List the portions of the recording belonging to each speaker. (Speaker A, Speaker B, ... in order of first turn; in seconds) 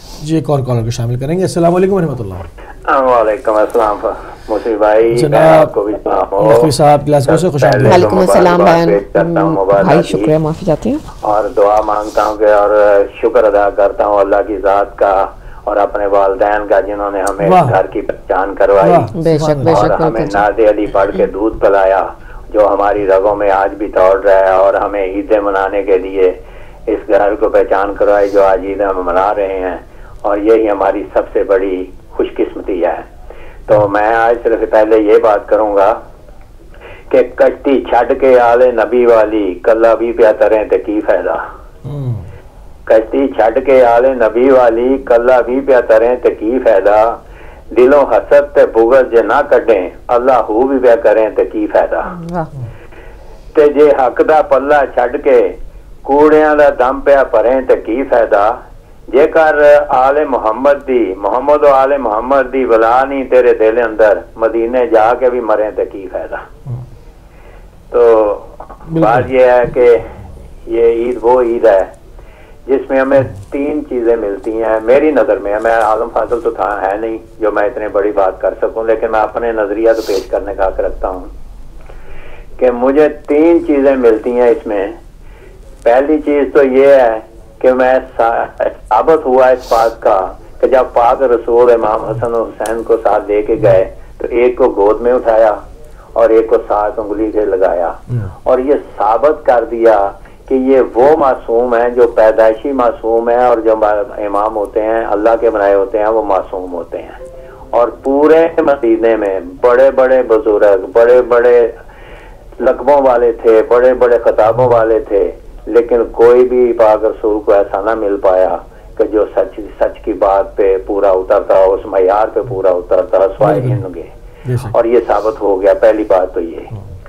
Speaker A: 0.2-2.5, 5.1-5.7, 6.4-8.1, 17.4-17.8, 18.8-19.9, 41.8-42.2, 68.9-69.3, 123.4-123.8, 124.4-124.8
Speaker B: 2.9-6.7, 7.2-10.3, 11.2-19.1, 19.6-33.1, 33.7-36.0, 37.1-41.4, 42.9-47.2, 47.7-52.1, 53.5-58.6, 59.1-66.5, 67.9-70.1, 70.7-71.9, 72.7-81.3, 82.6-85.0, 85.8-95.6, 96.1-107.2, 107.7-111.7, 112.6-124.1, 124.7-126.7
Speaker C: 7.8-11.0, 19.1-20.4, 52.1-52.5